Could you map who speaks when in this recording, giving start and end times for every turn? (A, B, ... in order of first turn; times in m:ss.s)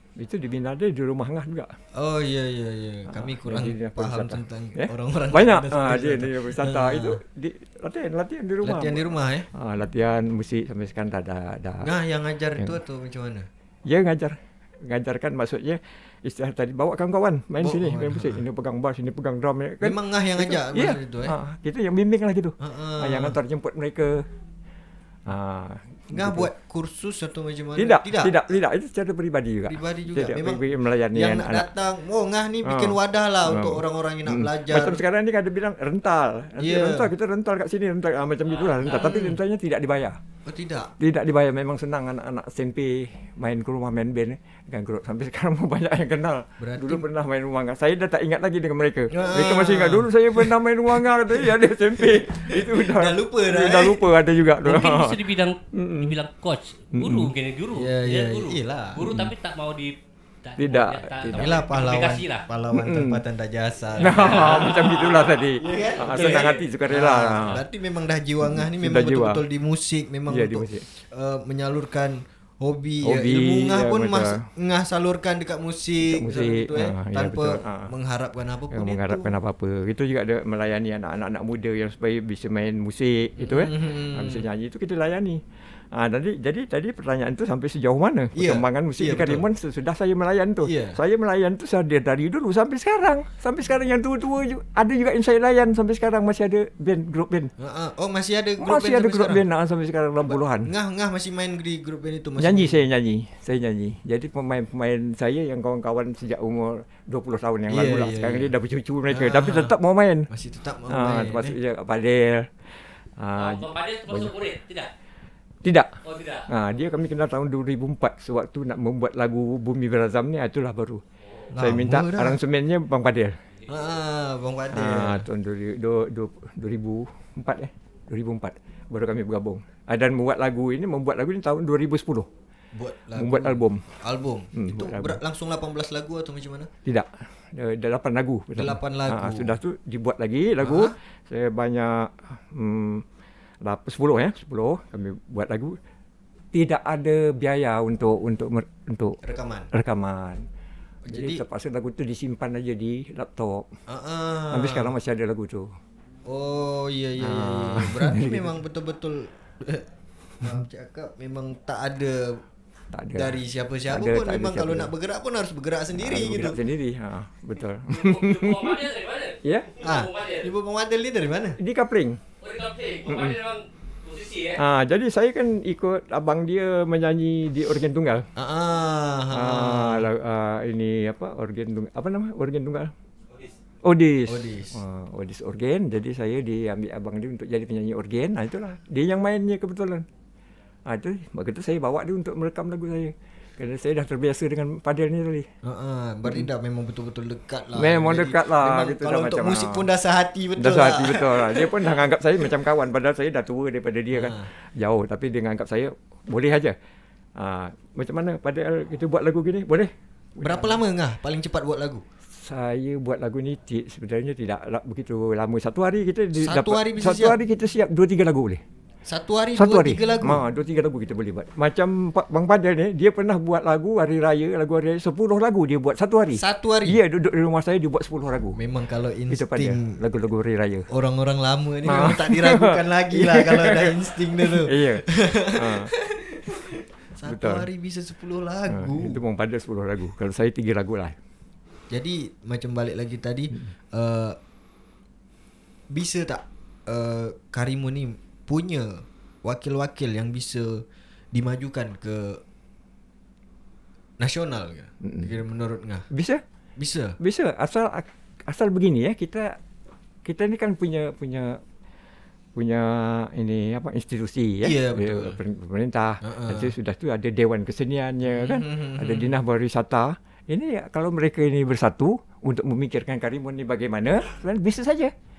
0:00.2-0:01.8 A
0:01.9-0:07.2 B
0:03.1-0:11.9 A
0:08.6-0:09.5 B
0:11.8-0:13.5 B
0:13.9-0:14.3 A
0:14.8-0:24.2 A
0:17.6-0:18.4 B
0:19.8-0:21.3 B
0:22.6-0:23.4 B
0:25.3-0:26.5 A
0:26.1-0:28.4 B
0:27.8-0:31.7 A
0:29.6-0:35.0 B
0:32.6-0:40.2 A
0:36.6-0:37.1 B
0:38.5-0:39.1 C
0:38.9-0:39.4 B
0:40.4-0:40.9 B
0:41.0-0:55.2 A
0:46.6-0:47.0 B
0:49.1-0:54.1 B
0:54.6-1:02.4 C
0:55.7-0:56.1 A
0:56.9-0:57.3 A
0:57.7-0:59.0 B
0:59.0-0:59.3 A
1:00.6-1:01.5 A
1:01.3-1:19.3 B
1:02.7-1:03.2 A
1:04.0-1:07.6 A
1:04.0-1:05.3 C
1:06.1-1:06.4 C
1:08.4-1:09.4 A
1:10.3-1:10.9 A
1:13.0-1:14.4 A
1:16.1-1:17.9 A
1:18.7-1:37.5 A
1:23.4-1:24.4 B
1:28.4-1:29.4 B
1:30.6-1:31.0 B
1:37.6-1:39.4 B
1:38.6-1:40.7 A
1:40.3-1:42.8 B
1:42.4-1:50.3 A
1:47.7-1:48.5 B
1:49.1-1:49.8 B
1:50.3-1:51.5 B
1:50.9-1:54.3 A
1:53.4-1:54.9 C
1:55.6-1:56.0 A
1:56.0-1:56.5 C
1:56.5-2:01.0 A
2:01.5-2:02.4 B
2:01.6-2:03.4 A
2:03.7-2:05.2 B
2:04.7-2:12.3 A
2:12.7-2:16.7 B
2:13.2-2:13.8 A
2:14.5-2:15.2 A
2:16.8-2:23.0 A
2:18.6-2:19.6 B
2:20.6-2:20.9 B
2:23.6-2:25.8 A
2:26.5-2:29.2 A
2:29.2-2:29.7 B
2:29.7-2:30.4 A
2:31.0-2:31.4 B
2:31.1-2:33.7 A
2:33.9-2:34.9 B
2:34.5-2:35.7 A
2:36.2-2:39.8 B
2:37.2-2:38.5 A
2:40.4-2:42.4 B
2:42.9-2:43.4 A
2:43.1-2:46.6 B
2:43.9-2:44.9 A
2:45.9-2:48.8 A
2:47.9-2:50.5 C
2:49.4-2:49.7 A
2:49.8-2:51.6 B
2:51.6-2:52.2 A
2:52.4-2:54.6 C
2:53.1-2:53.4 A
2:54.6-2:58.2 A
2:58.3-3:00.1 B
2:59.3-3:02.9 A
3:03.8-3:10.0 A
3:04.3-3:04.8 B
3:10.8-3:15.5 A
3:15.6-3:22.0 B
3:17.8-3:19.8 A
3:20.6-3:26.7 A
3:24.1-3:24.5 B
3:27.4-3:30.8 A
3:30.4-3:32.0 B
3:32.3-3:38.6 A
3:36.4-3:37.4 B
3:39.0-3:40.4 B
3:39.6-3:48.6 A
3:46.4-3:47.0 B
3:48.6-3:49.8 B
3:49.3-3:50.9 A
3:50.9-3:59.2 B
3:51.8-3:55.9 A
3:57.2-3:57.6 A
3:58.7-4:01.2 A
4:01.9-4:04.4 B
4:05.9-4:12.4 B
4:14.2-4:16.1 B
4:15.0-4:15.3 A
4:16.1-4:16.4 A
4:16.8-4:17.1 B
4:17.2-4:19.5 A
4:20.2-4:21.6 A
4:22.6-4:35.1 A
4:24.6-4:25.4 B
4:26.2-4:26.7 B
4:28.2-4:29.3 B